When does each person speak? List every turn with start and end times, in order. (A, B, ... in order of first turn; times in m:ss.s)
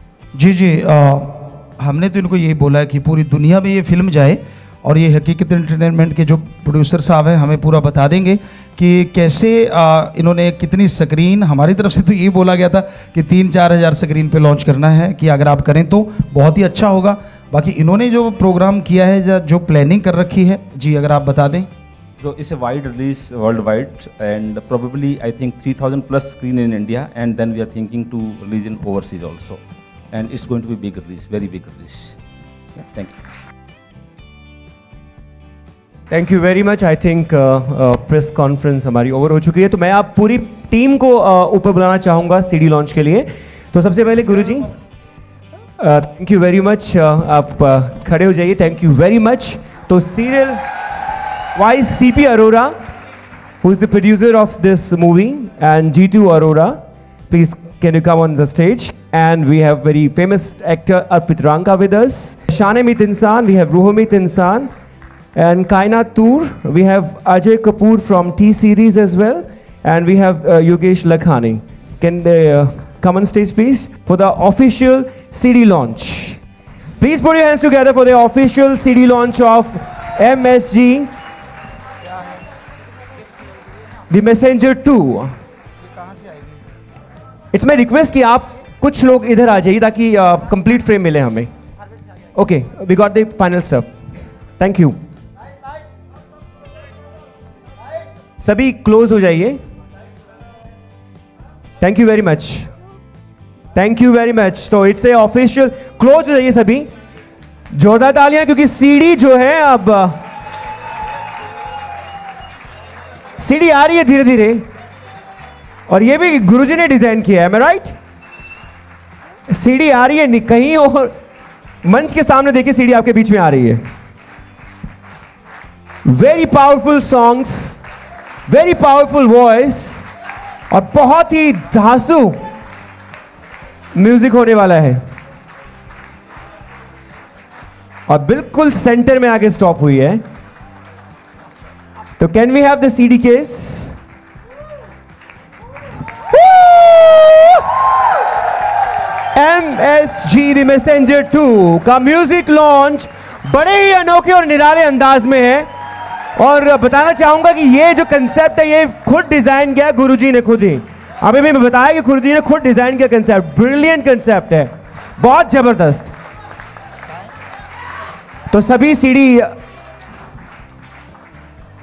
0:00.4-0:21.7 A
0:22.2-0:29.6 B
0:30.1-0:32.2 B
0:32.8-0:33.2 B
0:36.1-0:44.7 C
0:45.8-0:50.6 C
0:51.6-0:52.8 C
0:53.6-1:04.7 C
1:05.4-1:16.4 C
1:17.0-1:21.1 C
1:22.1-1:22.4 A
1:24.1-1:25.4 C
1:25.8-1:26.6 A
1:27.5-1:31.5 C
1:32.4-1:34.0 C
1:34.6-1:35.0 C
1:38.4-1:39.6 C
1:41.8-1:42.7 C
1:43.8-1:46.9 C
1:47.7-1:50.2 C
1:53.4-1:54.7 C
1:55.9-1:58.0 C
1:59.5-2:01.2 C
2:01.8-2:03.9 C
2:06.0-2:07.8 C
2:08.5-2:10.1 C
2:10.7-2:12.5 C
2:14.0-2:15.1 C
2:18.1-2:20.2 C
2:22.2-2:24.0 C
2:26.3-2:27.6 C
2:29.3-2:35.7 C
2:36.4-2:46.1 C
2:48.5-2:49.6 C